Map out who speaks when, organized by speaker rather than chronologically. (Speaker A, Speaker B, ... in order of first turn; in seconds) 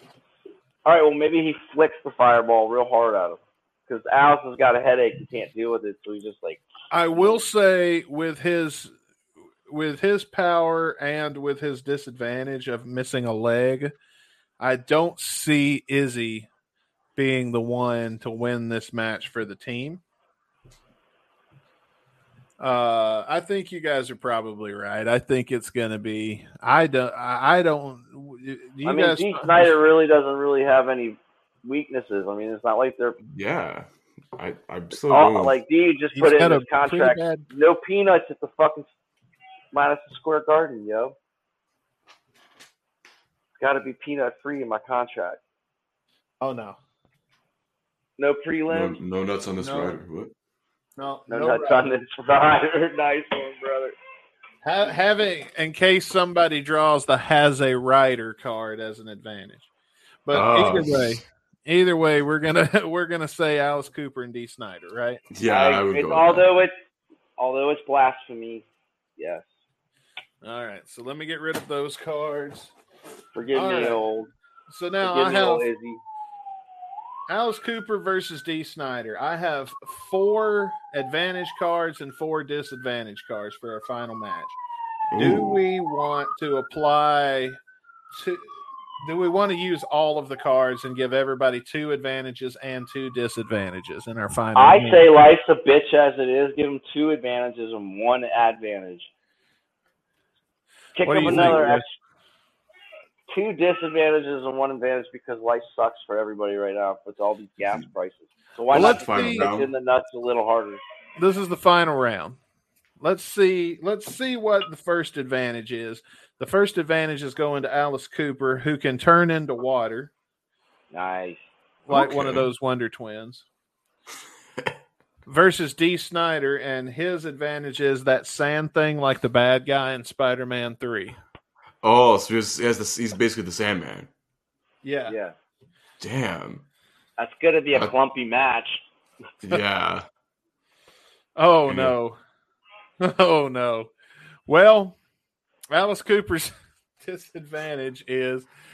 Speaker A: 0.8-7.4, 28.8-33.2, 35.0-38.9, 39.7-41.1, 43.6-45.4, 48.2-49.0, 51.3-53.9, 65.5-66.7, 67.4-68.6, 69.2-69.5, 73.3-74.3, 75.0-76.0, 94.5-99.1, 101.0-101.9, 103.3-110.8, 120.9-121.5, 135.1-135.3, 137.2-138.8
Speaker B: 6.9-8.9, 9.7-13.9, 14.6-16.5, 17.1-20.0, 22.6-29.7, 36.1-37.4, 46.4-46.8, 49.6-50.0, 51.0-51.8, 54.6-59.7, 60.2-65.2, 70.4-72.7, 73.5-74.0, 74.7-75.7, 77.3-84.6, 85.2-87.6, 88.1-88.5, 89.0-95.0, 101.0-101.8, 108.7-109.5, 111.2-112.4, 113.0-120.1, 121.9-123.4, 125.3-131.2, 134.8-135.1, 141.3-142.2, 143.0-143.9, 144.5-145.0, 145.7-148.5
Speaker C: 33.2-35.6, 48.7-50.3, 60.3-61.2, 65.3-66.5, 85.1-85.6, 101.3-101.5, 108.7-109.7, 121.9-122.5, 131.8-134.1, 136.0-136.6, 139.4-140.0, 141.7-141.9